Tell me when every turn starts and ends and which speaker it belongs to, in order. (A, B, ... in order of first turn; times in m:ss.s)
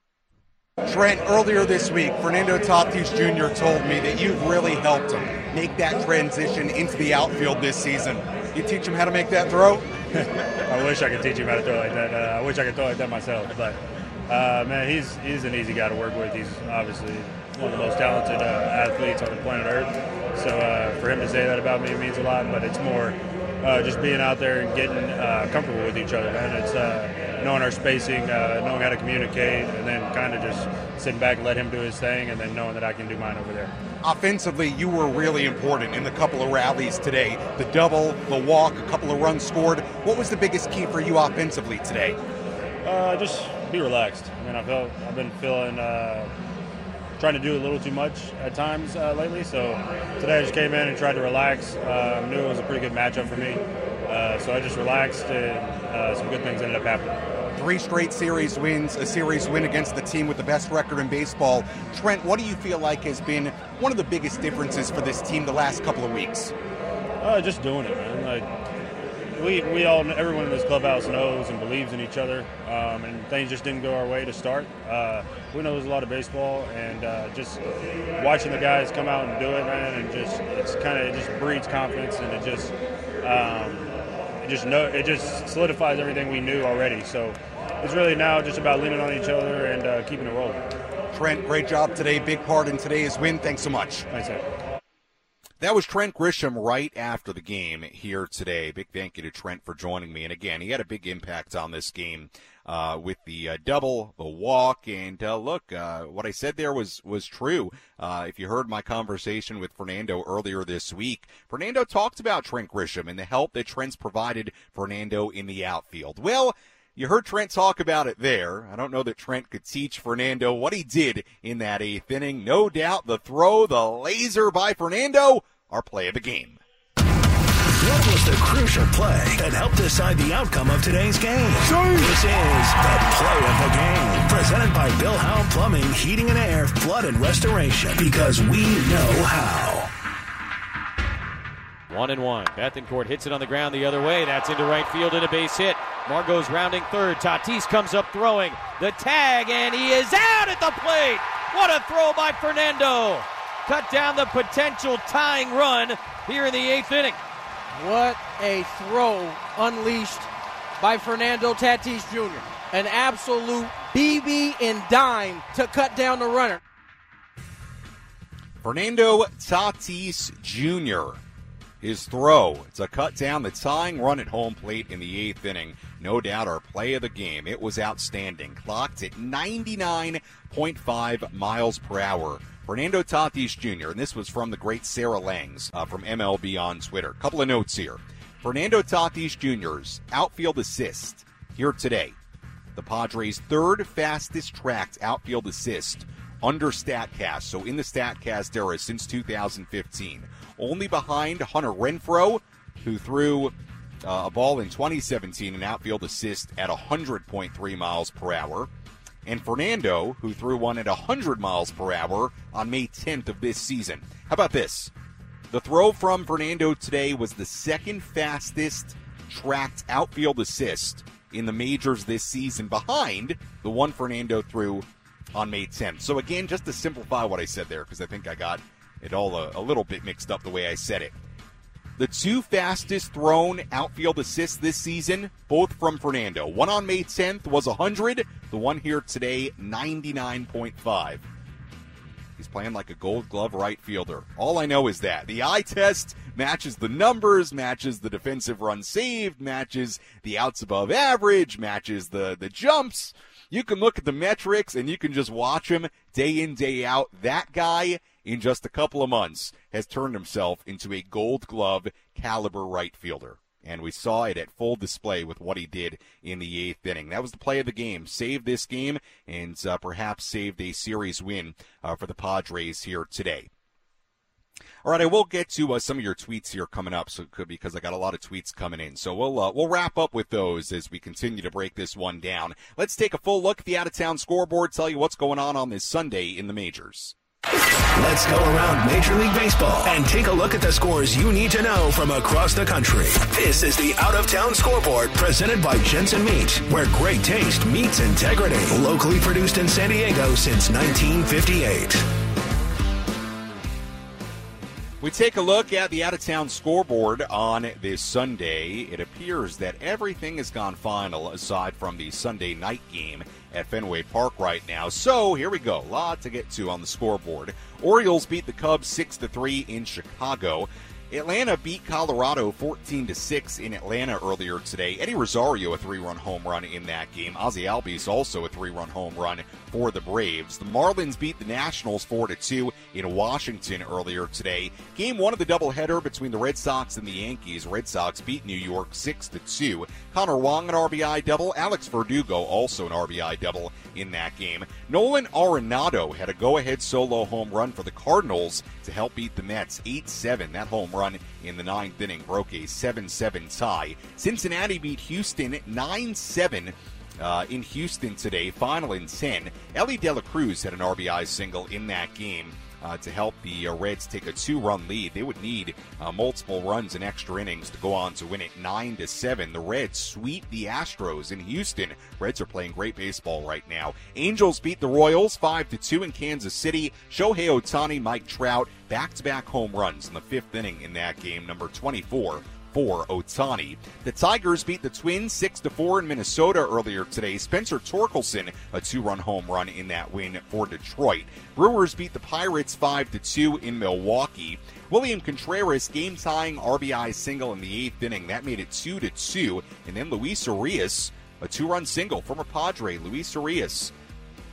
0:00.8-0:09.9 A
0:10.7-0:33.7 B
0:34.0-0:42.2 A
0:42.8-0:46.3 B
0:47.2-0:57.2 B
0:57.5-1:06.5 A
1:07.2-1:08.5 B
1:09.4-1:17.6 B
1:18.2-1:23.9 B
1:24.4-1:30.6 B
1:31.1-1:34.1 A
1:34.1-1:34.4 B
1:35.6-2:06.6 C
2:07.8-2:19.9 D
2:21.9-2:37.2 E
2:37.8-2:46.6 F
2:48.6-2:51.2 C
2:51.8-3:12.2 C
3:12.8-3:28.7 C
3:29.3-3:34.9 C
3:35.5-3:51.2 C
3:52.0-4:01.2 C
4:02.4-4:33.5 C
4:34.8-4:47.2 C
4:47.9-5:02.0 D
5:05.0-6:43.9 C